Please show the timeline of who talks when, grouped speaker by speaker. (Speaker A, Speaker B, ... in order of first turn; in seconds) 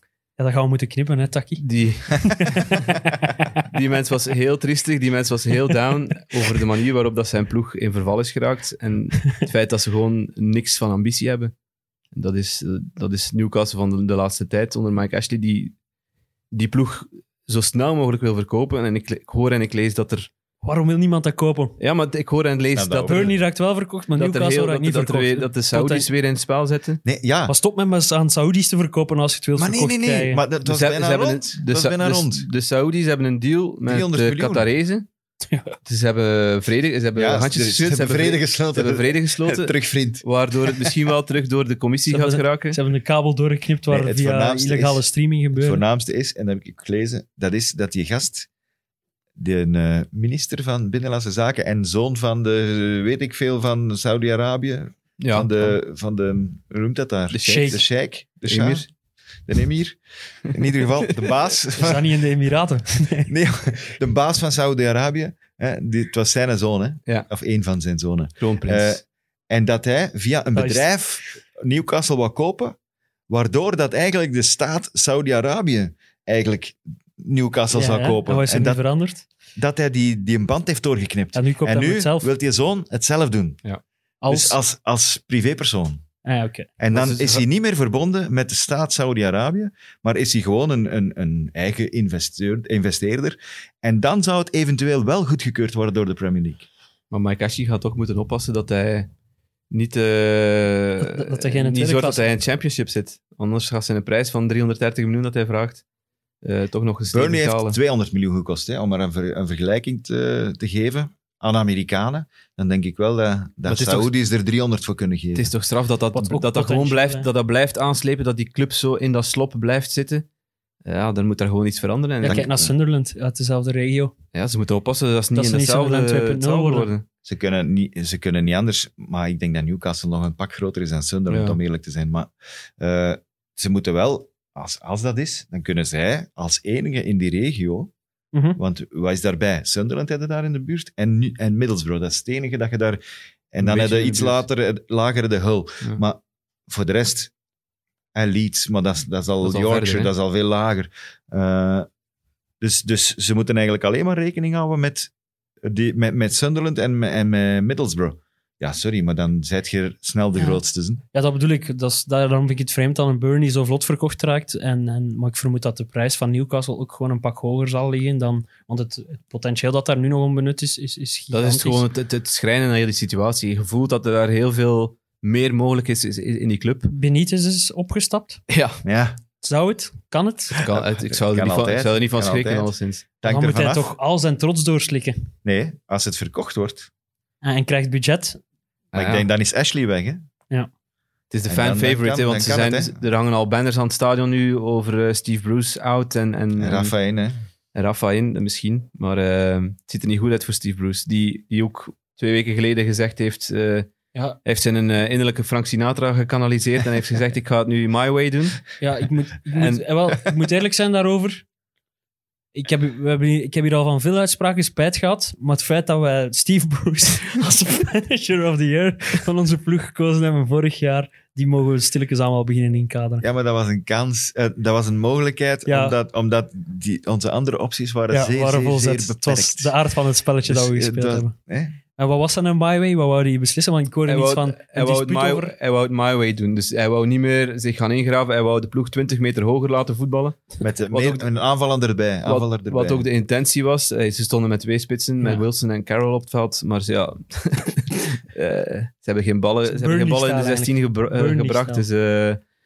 Speaker A: 0.4-1.6, 2.2-3.2, 20.6-21.8, 23.0-26.1, 27.5-30.4, 35.5-35.8, 42.1-45.8, 57.4-57.8, 61.8-63.3, 70.5-70.9, 77.7-79.2, 81.3-82.3, 84.2-84.6, 86.2-86.7, 101.0-102.3, 116.1-117.3, 122.2-124.1, 125.3-126.9, 138.3-138.6, 161.1-171.8, 176.9-178.4, 179.4-180.5, 183.2-185.3, 187.4-188.4, 208.8-211.4, 212.5-223.2, 225.7-225.9, 228.1-231.3, 232.0-235.5, 249.6-251.8
Speaker B: 1.6-3.0, 3.6-11.5, 12.1-15.7, 16.5-20.3, 21.8-23.3, 24.1-27.0, 30.6-35.1, 35.8-42.8, 55.2-55.5, 57.3-57.8, 58.5-58.9, 68.4-69.0, 86.9-87.4, 97.1-99.1, 99.7-105.8, 106.4-107.8, 113.7-114.1, 115.3-120.2, 120.8-122.5, 124.3-127.0, 131.3-131.6, 143.6-144.4, 149.4-150.1, 171.3-176.9, 178.5-178.8, 180.6-183.0, 188.9-189.3, 191.3-196.9, 197.7-203.9, 204.4-208.6, 209.5-209.8, 234.1-241.2, 242.2-252.4
Speaker C: 22.7-23.3, 27.0-27.5, 29.6-32.5, 33.9-34.7, 37.1-40.9, 43.9-48.5, 49.4-58.9, 59.5-62.2, 63.3-72.8, 73.3-78.8, 79.5-83.6, 84.3-86.0, 86.8-96.7, 107.1-115.5, 122.2-122.7, 127.2-137.9, 138.6-143.0, 143.5-147.3, 148.1-151.9, 152.6-155.1, 155.6-161.0, 178.8-179.2, 180.6-183.9, 185.4-186.9, 188.9-190.2, 191.5-193.0, 196.6-197.3, 223.2-229.7, 230.4-231.8, 240.6-243.1